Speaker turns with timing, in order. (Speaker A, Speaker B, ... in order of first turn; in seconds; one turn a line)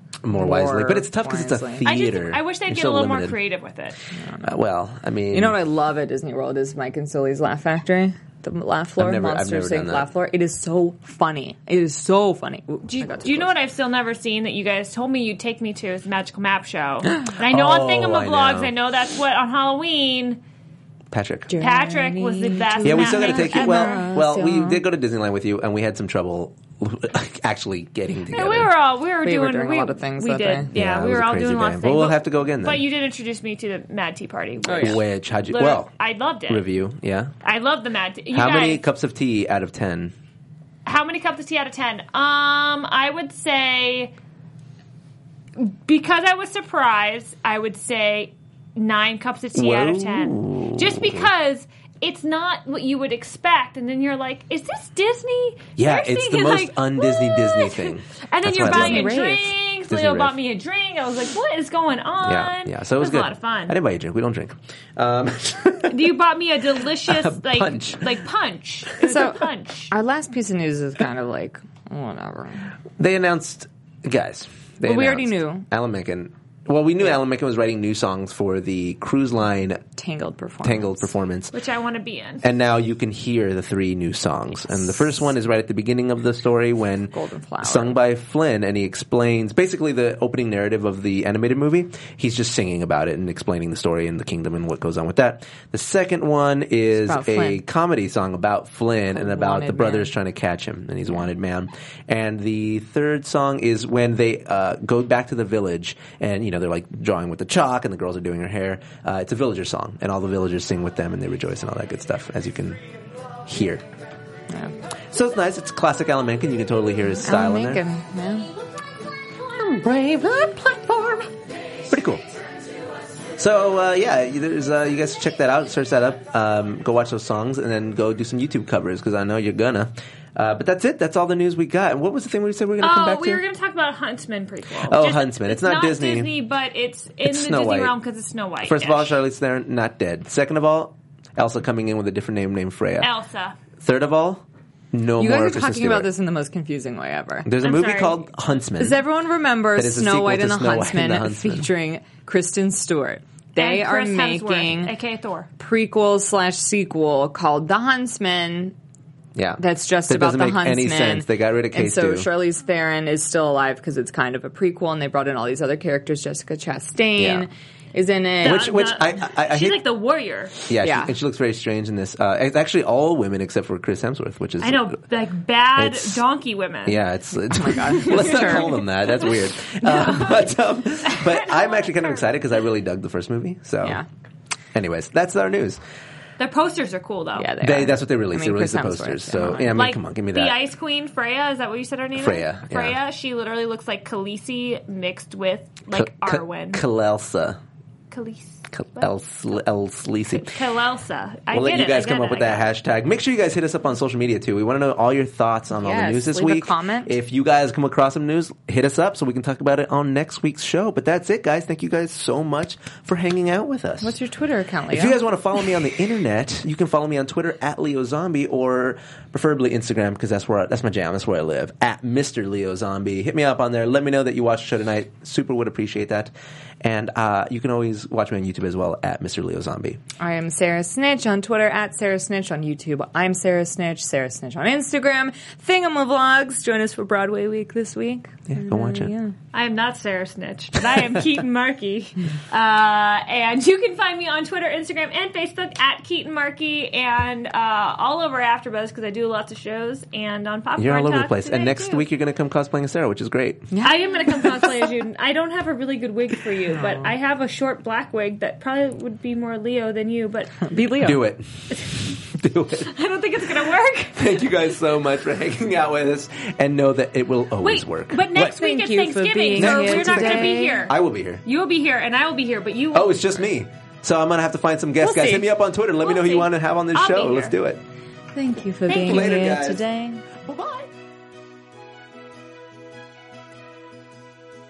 Speaker A: 0.2-3.4
Speaker B: 0.3-1.9
Speaker C: 1.8-4.0
Speaker B: 4.2-4.6
Speaker A: 4.4-5.6
Speaker B: 5.3-13.5
Speaker A: 9.0-10.1
Speaker C: 12.9-20.4
Speaker A: 17.4-18.7
Speaker A: 21.1-21.6
Speaker B: 21.5-24.8
Speaker C: 21.6-24.1
Speaker A: 22.8-28.7
Speaker C: 28.3-36.7
Speaker B: 29.2-30.7
Speaker A: 30.7-32.9
Speaker B: 34.6-35.0
Speaker A: 34.7-35.9
Speaker A: 36.5-37.3
Speaker C: 37.4-38.9
Speaker A: 38.3-40.1
Speaker C: 40.9-44.1
Speaker C: 45.6-63.8
Speaker A: 49.5-51.3
Speaker A: 55.8-59.2
Speaker B: 58.6-59.5
Speaker A: 59.9-60.4
Speaker A: 62.2-66.1
Speaker C: 65.9-69.9
Speaker A: 67.1-68.1
Speaker B: 69.0-72.7
Speaker A: 73.0-79.8
Speaker B: 74.8-75.7
Speaker B: 80.0-81.1
Speaker A: 80.6-81.5
Speaker C: 81.5-82.5
Speaker A: 82.4-112.8
Speaker B: 87.1-88.0
Speaker B: 97.0-97.6
Speaker B: 99.1-100.2
Speaker A: 113.5-113.8
Speaker B: 114.5-114.8
Speaker A: 115.1-117.8
Speaker B: 117.3-118.5
Speaker A: 119.5-121.3
Speaker A: 121.9-122.2
Speaker A: 123.4-133.4
Speaker C: 132.8-139.2
Speaker A: 134.8-136.3
Speaker A: 137.2-137.9
Speaker A: 138.6-143.1
Speaker C: 143.0-143.6
Speaker A: 143.8-146.1
Speaker B: 145.2-147.5
Speaker A: 147.4-149.1
Speaker C: 147.6-148.2
Speaker B: 148.8-154.9
Speaker A: 149.8-151.7
Speaker C: 153.6-155.5
Speaker B: 155.6-158.8
Speaker A: 159.3-162.3
Speaker B: 159.6-168.8
Speaker A: 167.2-167.5
Speaker A: 168.4-169.8
Speaker C: 168.4-170.6
Speaker A: 170.7-175.0
Speaker B: 170.8-171.1
Speaker C: 174.6-177.0
Speaker A: 175.8-176.2
Speaker A: 176.8-184.0
Speaker B: 177.5-178.8
Speaker C: 178.1-178.7
Speaker C: 181.1-182.2
Speaker A: 184.7-185.8
Speaker C: 186.4-187.6
Speaker B: 187.4-189.8
Speaker A: 187.6-190.6
Speaker C: 189.6-196.8
Speaker A: 192.2-193.0
Speaker A: 195.9-197.6
Speaker C: 198.1-199.1
Speaker A: 198.7-200.5
Speaker C: 200.3-202.7
Speaker A: 201.5-214.2
Speaker B: 205.7-207.1
Speaker B: 214.0-215.2
Speaker A: 214.9-230.0
Speaker B: 230.2-239.3
Speaker A: 238.5-239.1
Speaker C: 239.5-252.1
Speaker A: 250.8-253.7
Speaker B: 253.7-254.8
Speaker C: 253.8-260.7
Speaker A: 256.7-257.1
Speaker B: 260.7-261.2
Speaker A: 261.0-262.9
Speaker C: 262.9-264.5
Speaker A: 264.1-268.6
Speaker C: 267.6-273.2
Speaker B: 268.4-270.9
Speaker A: 269.5-271.4
Speaker A: 272.9-277.8
Speaker C: 275.1-275.4
Speaker C: 276.0-277.6
Speaker B: 278.3-280.2
Speaker C: 278.9-279.4
Speaker A: 279.0-279.8
Speaker A: 280.4-280.9